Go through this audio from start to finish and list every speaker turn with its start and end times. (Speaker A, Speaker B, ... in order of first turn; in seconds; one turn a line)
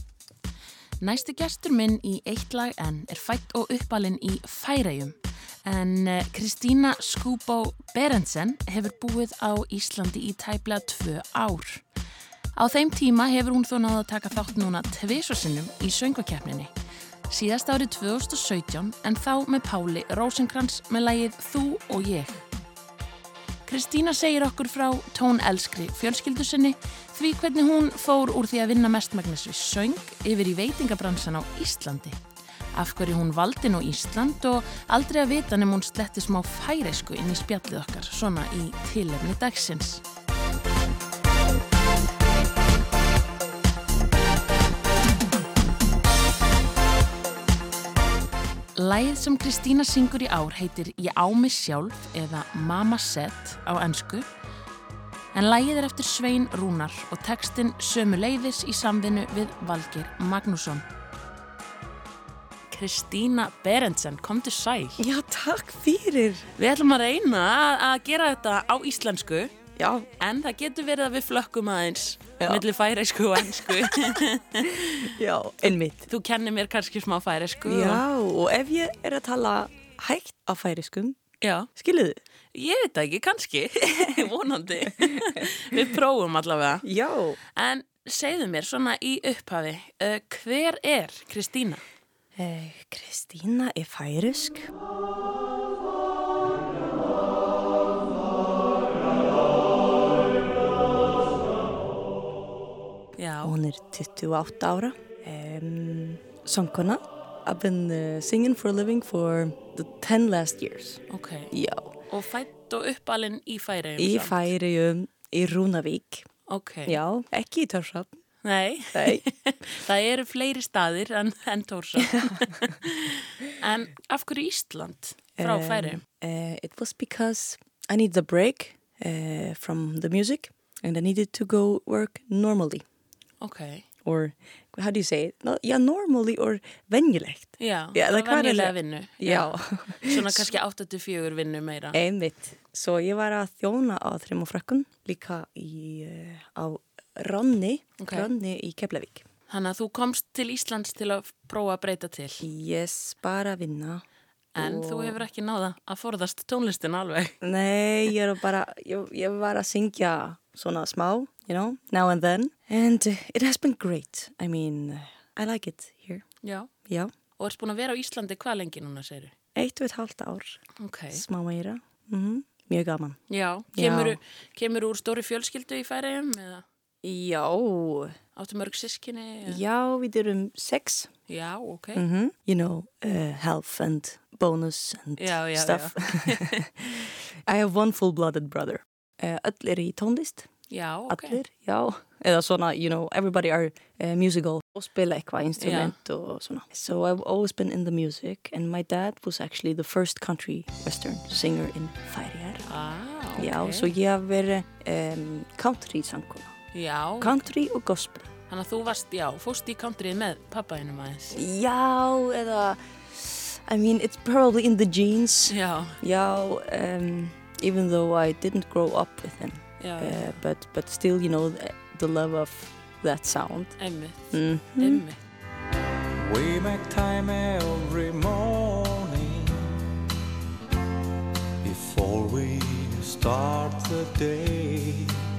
Speaker A: 1.0-11.8
Speaker A: 12.6-16.7
Speaker A: 17.3-22.4
Speaker A: 23.6-32.2
Speaker A: 32.7-40.0
Speaker A: 48.8-54.2
Speaker A: 55.3-60.8
Speaker A: 62.7-65.0
Speaker B: 65.0-66.5
Speaker A: 66.5-69.5
Speaker B: 69.8-70.1
Speaker A: 70.2-75.1
Speaker B: 72.4-72.6
Speaker B: 73.3-74.2
Speaker B: 75.0-76.1
Speaker A: 75.6-78.0
Speaker B: 77.7-81.2
Speaker A: 81.4-81.7
Speaker B: 81.7-82.2
Speaker A: 82.5-86.8
Speaker B: 83.8-84.3
Speaker B: 85.0-85.8
Speaker B: 86.8-87.4
Speaker A: 87.5-91.8
Speaker B: 92.4-94.7
Speaker A: 103.2-103.5
Speaker B: 103.4-112.0
Speaker A: 111.1-111.5
Speaker A: 112.1-114.5
Speaker B: 114.0-116.3
Speaker A: 116.5-117.0
Speaker B: 116.9-118.2
Speaker A: 118.4-126.0
Speaker B: 118.9-119.2
Speaker B: 122.0-122.3
Speaker B: 125.4-132.8
Speaker A: 133.4-133.8
Speaker B: 134.0-140.5
Speaker A: 137.6-142.0
Speaker B: 141.9-149.2
Speaker A: 148.0-148.3
Speaker A: 149.5-152.4
Speaker B: 152.4-154.0
Speaker A: 154.6-157.3
Speaker B: 154.6-155.2
Speaker B: 157.4-166.2
Speaker A: 166.4-166.7
Speaker A: 167.4-169.3
Speaker B: 169.6-173.2
Speaker A: 170.8-171.2
Speaker A: 173.3-176.6
Speaker B: 173.7-174.2
Speaker B: 177.0-178.1
Speaker A: 178.3-179.6
Speaker B: 179.4-181.1
Speaker A: 181.3-182.0
Speaker B: 181.9-190.5
Speaker A: 185.2-186.7
Speaker A: 190.7-191.4
Speaker B: 191.1-202.7
Speaker A: 195.6-195.9
Speaker A: 202.7-203.9
Speaker B: 203.4-206.5
Speaker A: 206.7-207.4
Speaker B: 207.2-208.3
Speaker A: 208.5-211.4
Speaker B: 211.3-223.8
Speaker A: 215.5-216.0
Speaker A: 219.8-220.3
Speaker A: 223.8-225.2
Speaker B: 224.3-225.0
Speaker C: 226.2-229.8
Speaker C: 231.6-235.3